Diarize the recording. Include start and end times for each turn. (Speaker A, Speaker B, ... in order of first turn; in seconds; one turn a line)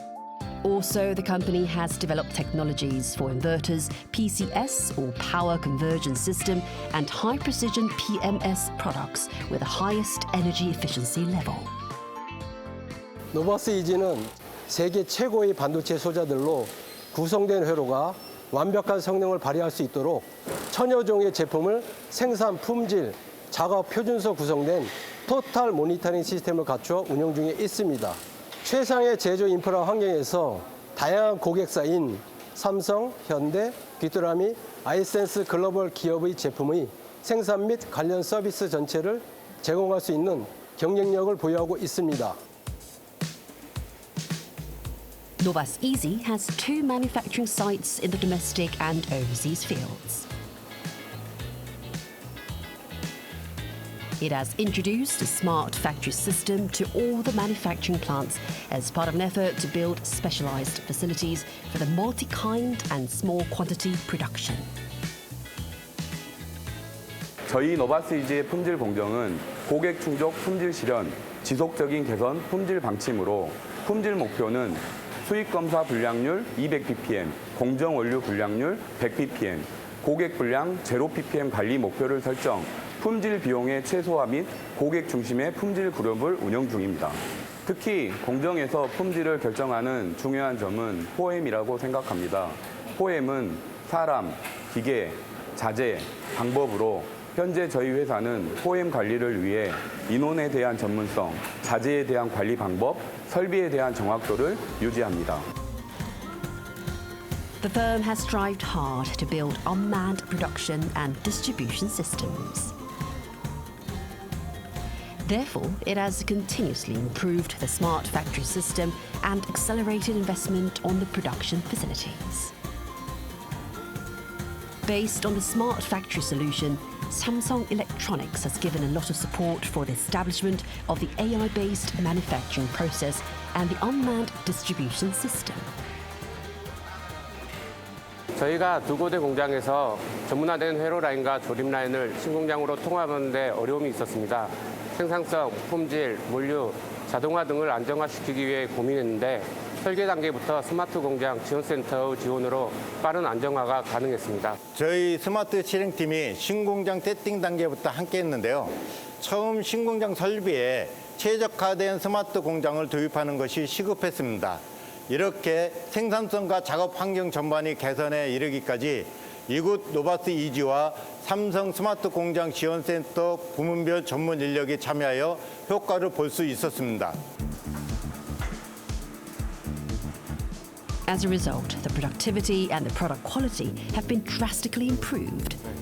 Speaker A: 0.6-11.7
Speaker B: 13.3-42.4
Speaker A: 45.4-50.3
Speaker A: 54.2-64.7
Speaker C: 67.5-105.4
Speaker A: 107.6-112.7
Speaker A: 115.2-122.5
Speaker A: 124.8-135.7
Speaker D: 138.4-154.6
Speaker E: 154.7-177.2
Speaker A: 181.1-185.6